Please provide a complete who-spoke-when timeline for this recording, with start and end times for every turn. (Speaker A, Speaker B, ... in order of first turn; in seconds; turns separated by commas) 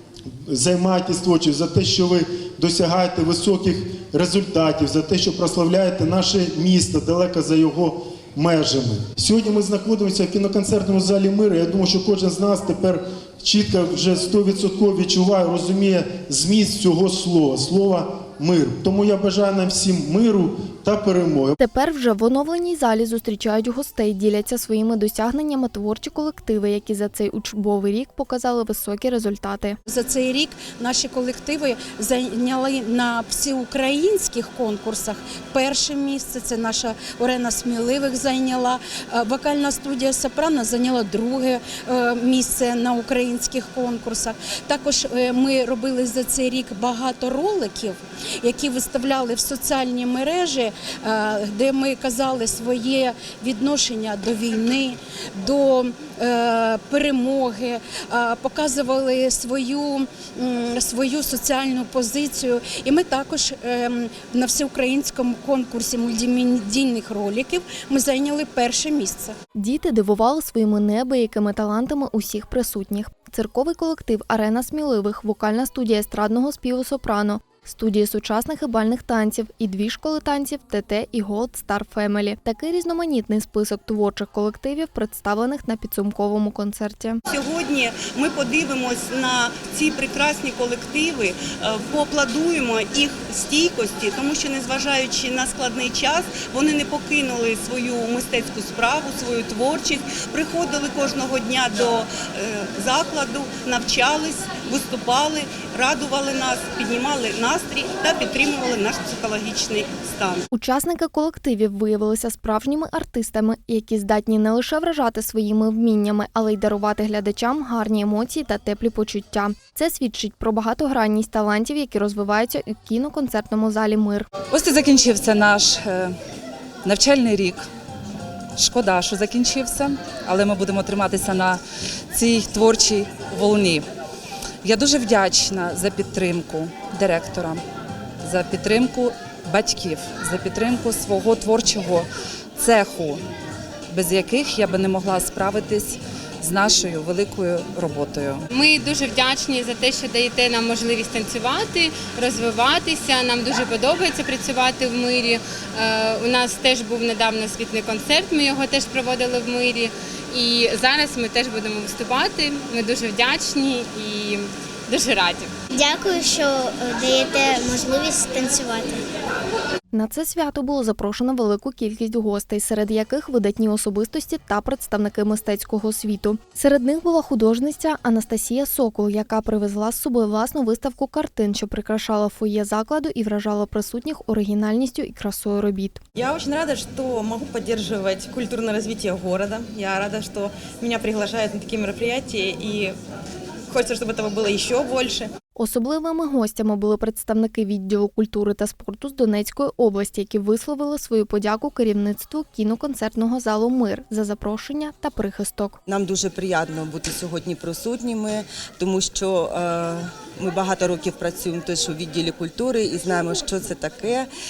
Speaker A: 0.5-21.6, Speaker B: 21.6-29.8, Speaker C: 29.9-69.4, Speaker B: 69.6-87.2, Speaker D: 87.3-110.4, Speaker B: 110.5-124.3, Speaker E: 124.5-126.2, Speaker E: 126.8-127.7, Speaker E: 128.6-133.9, Speaker E: 134.6-137.6, Speaker E: 138.2-143.2, Speaker E: 143.9-148.4, Speaker F: 148.5-165.5, Speaker G: 165.7-169.0, Speaker B: 169.9-186.0, Speaker H: 186.2-193.0, Speaker H: 193.7-195.3, Speaker B: 195.6-205.8, Speaker I: 205.9-214.3